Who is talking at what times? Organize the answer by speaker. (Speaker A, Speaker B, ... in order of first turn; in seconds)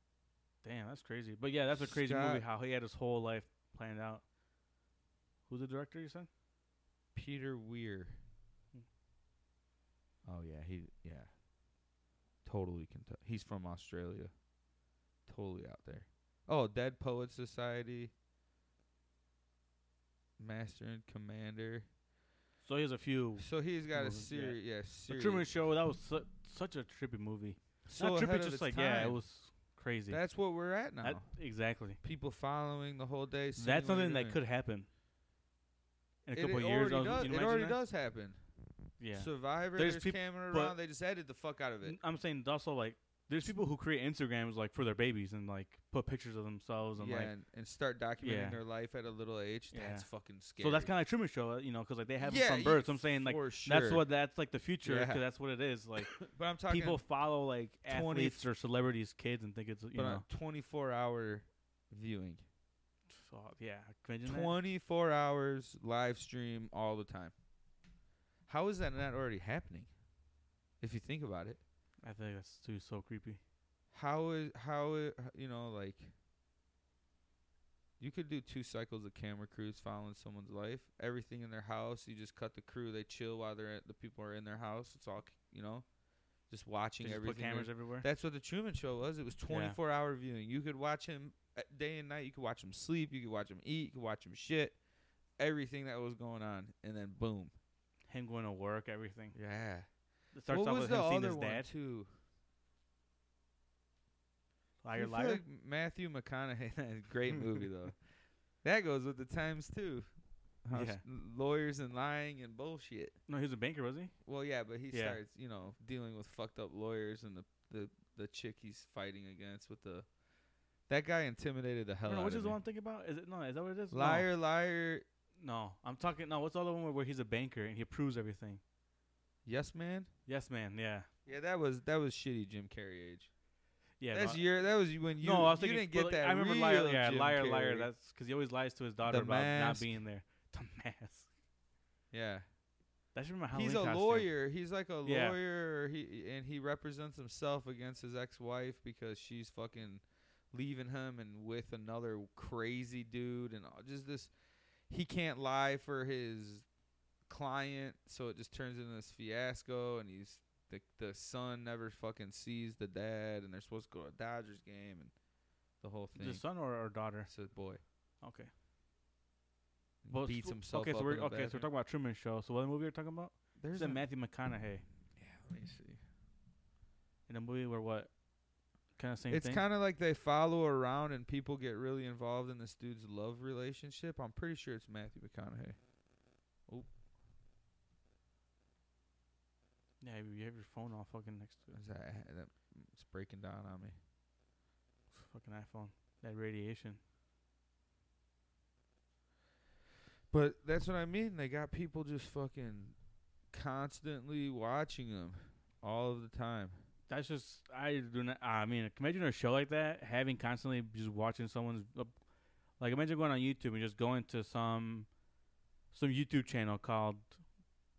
Speaker A: 0.6-4.2, 5.5-6.3, 22.6-30.2, 31.0-32.0, 33.6-34.9, 36.3-37.8, 39.0-40.8, 41.8-47.3, 48.2-48.6, 49.7-60.2, 63.1-64.5, 72.0-73.4, 87.0-88.1, 89.5-89.8, 98.1-99.4, 100.3-101.7, 104.8-105.4, 110.7-111.0, 113.3-114.1, 114.9-115.2, 122.1-124.3, 125.4-128.6, 130.3-131.1, 134.0-134.4, 135.2-141.3, 143.2-144.3, 145.1-145.4, 166.2-167.3, 168.2-168.5, 170.1-174.8, 177.3-178.2, 179.0-179.6, 190.0-191.8, 195.1-197.0, 207.1-212.2, 212.8-215.1, 215.9-217.4
Speaker B: 1.8-2.5, 7.2-8.2, 10.2-11.3, 12.4-14.3, 15.3-18.1, 20.4-21.9, 23.4-25.5, 27.9-29.2, 30.1-31.4, 32.0-34.4, 36.4-38.4, 39.1-42.0, 47.0-50.9, 52.2-54.1, 54.8-55.2, 56.2-57.0, 57.9-58.5, 60.0-62.4, 64.2-67.3, 68.5-69.9, 70.8-71.6, 73.9-76.1, 78.0-85.9, 86.5-94.8, 95.4-97.5, 99.3-99.9, 100.5-102.1, 104.9-108.0, 108.6-110.1, 110.6-113.2, 114.2-120.1, 120.9-122.6, 123.9-125.0, 129.4-130.1, 131.3-133.3, 134.1-137.9, 139.1-139.9, 142.1-142.5, 143.5-154.3, 154.9-156.7, 157.3-165.1, 165.8-166.4, 167.3-167.8, 170.0-171.7, 173.6-174.0, 175.2-176.0, 179.3-185.8, 191.7-194.0, 200.3-203.0, 203.5-206.8